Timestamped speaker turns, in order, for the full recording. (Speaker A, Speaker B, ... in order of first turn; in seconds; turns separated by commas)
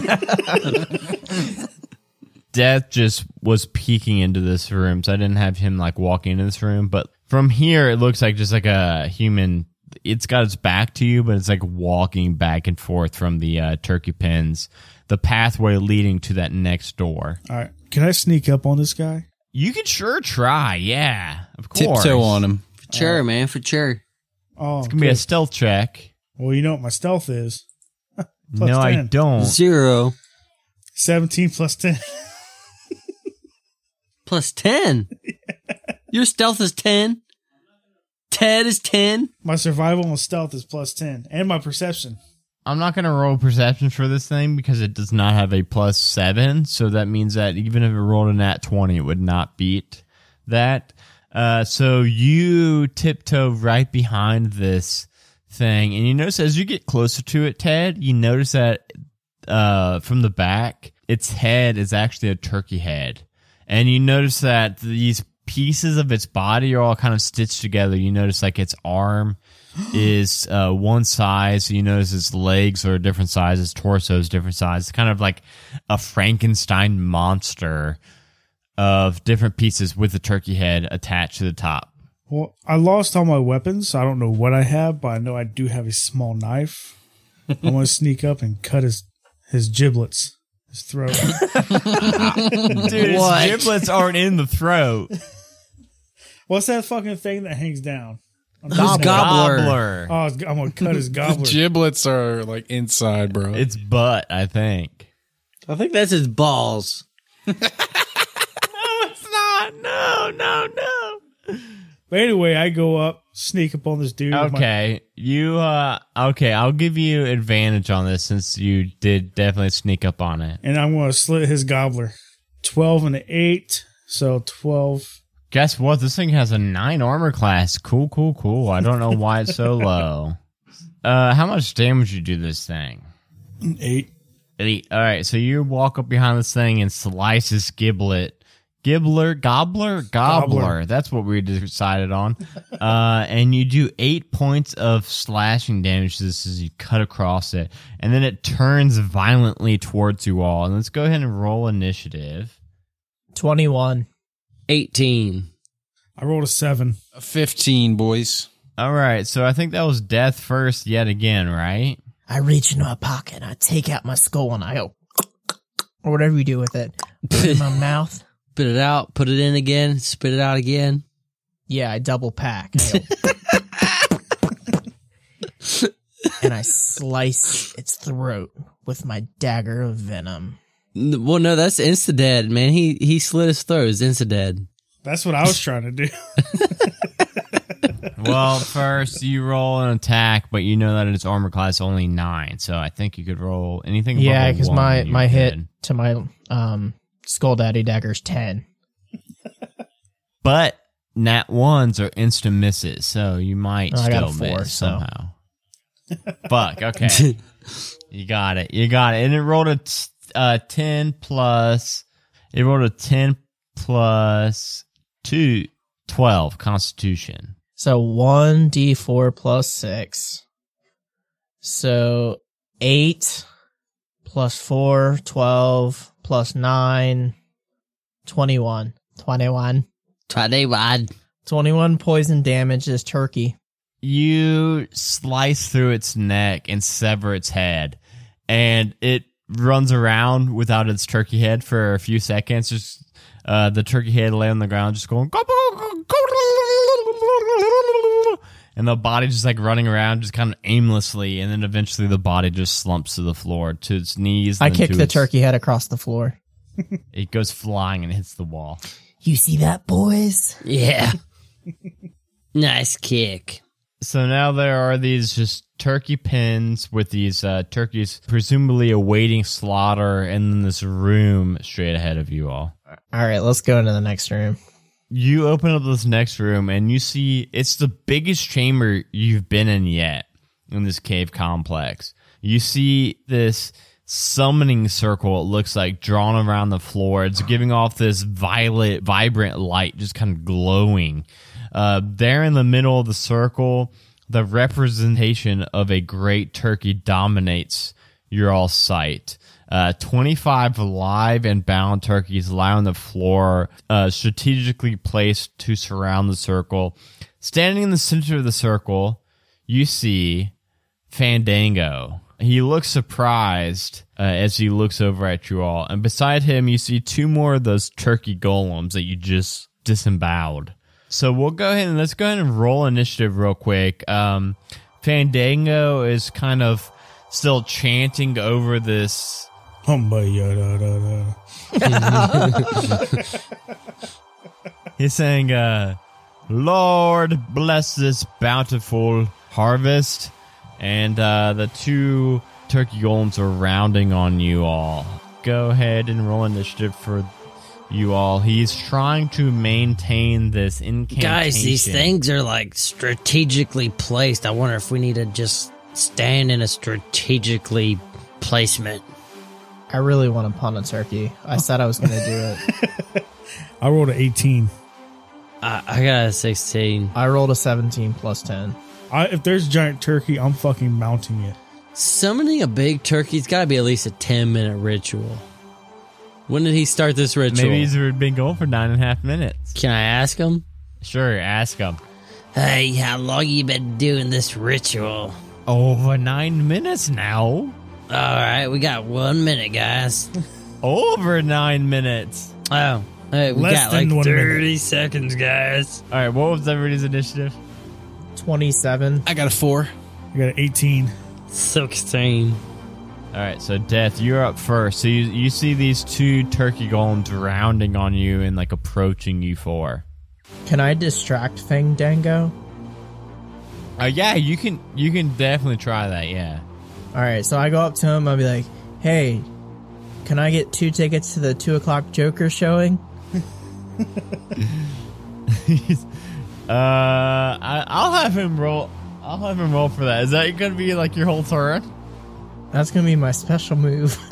Speaker A: 2.5-17.4, Speaker B: 17.5-19.2, Speaker A: 19.5-22.4, Speaker C: 21.7-22.6, Speaker D: 22.9-24.0, Speaker B: 22.9-23.2, Speaker B: 24.6-25.2, Speaker A: 24.8-26.1, Speaker B: 26.4-27.6, Speaker A: 28.5-29.6, Speaker B: 28.6-29.1, Speaker D: 29.4-30.1, Speaker B: 30.9-32.1, Speaker D: 34.2-35.1, Speaker D: 36.1-37.2, Speaker D: 38.3-39.3, Speaker B: 39.4-42.2, Speaker A: 42.6-58.9, Speaker A: 59.5-69.4, Speaker A: 69.9-78.0, Speaker A: 78.8-81.9, Speaker B: 82.3-86.9, Speaker B: 87.6-93.6, Speaker C: 91.8-92.9, Speaker A: 92.7-95.1, Speaker D: 93.0-93.7, Speaker B: 96.5-99.4, Speaker D: 98.7-99.8, Speaker A: 98.8-100.1, Speaker B: 100.1-101.6, Speaker C: 101.2-103.6, Speaker A: 103.5-105.1, Speaker D: 105.7-107.0, Speaker A: 108.6-111.7, Speaker B: 112.1-114.6, Speaker A: 114.3-120.6, Speaker B: 120.6-125.2, Speaker A: 125.5-130.4, Speaker A: 131.0-133.1, Speaker B: 133.6-134.1, Speaker A: 134.6-152.5, Speaker B: 140.2-140.8, Speaker E: 153.3-154.1, Speaker D: 154.7-155.5, Speaker B: 156.2-157.0, Speaker C: 157.1-158.5, Speaker A: 158.8-162.0, Speaker E: 162.3-164.9, Speaker E: 166.0-168.2, Speaker D: 167.3-167.7, Speaker D: 168.6-171.0, Speaker E: 171.7-173.1, Speaker E: 176.4-180.6, Speaker D: 180.9-184.7, Speaker B: 185.0-186.9, Speaker A: 188.2-195.7, Speaker E: 194.1-198.6, Speaker A: 200.4-205.3, Speaker E: 203.9-205.0, Speaker A: 206.5-207.3, Speaker D: 207.1-207.3, Speaker A: 208.1-217.5, Speaker E: 217.8-220.4, Speaker E: 221.6-223.4, Speaker E: 224.2-227.3, Speaker E: 228.2-229.8, Speaker D: 230.3-231.1, Speaker E: 231.4-233.6, Speaker A: 234.0-255.3, Speaker E: 254.6-256.4, Speaker A: 257.1-258.8, Speaker E: 259.2-260.6, Speaker D: 260.6-261.2, Speaker D: 262.5-263.6, Speaker A: 264.0-272.7, Speaker E: 273.1-274.6, Speaker A: 275.1-310.5, Speaker A: 311.1-329.5, Speaker B: 329.8-331.4, Speaker E: 331.7-333.0, Speaker D: 331.8-333.1, Speaker B: 332.7-333.2, Speaker A: 335.0-347.3, Speaker A: 347.9-352.1, Speaker D: 351.1-359.0, Speaker E: 359.9-362.6, Speaker B: 362.7-363.2, Speaker B: 363.8-364.7, Speaker D: 365.6-367.1, Speaker E: 367.1-368.8, Speaker B: 369.1-371.6, Speaker D: 371.9-375.4, Speaker D: 376.5-377.9, Speaker A: 377.5-379.7, Speaker D: 379.7-380.6, Speaker A: 381.0-382.0, Speaker D: 382.5-385.4, Speaker A: 385.7-387.8, Speaker D: 388.1-390.3, Speaker A: 390.8-392.5, Speaker D: 392.7-396.0, Speaker B: 393.5-394.6, Speaker A: 396.1-397.6, Speaker E: 398.4-399.3, Speaker C: 399.2-399.9, Speaker B: 400.3-401.1, Speaker D: 401.5-402.6, Speaker A: 403.3-410.0, Speaker E: 410.6-412.5, Speaker A: 414.0-416.6, Speaker E: 417.1-419.5, Speaker E: 420.2-423.0, Speaker A: 424.6-424.9, Speaker A: 425.5-426.1, Speaker A: 426.7-431.9, Speaker E: 432.7-434.2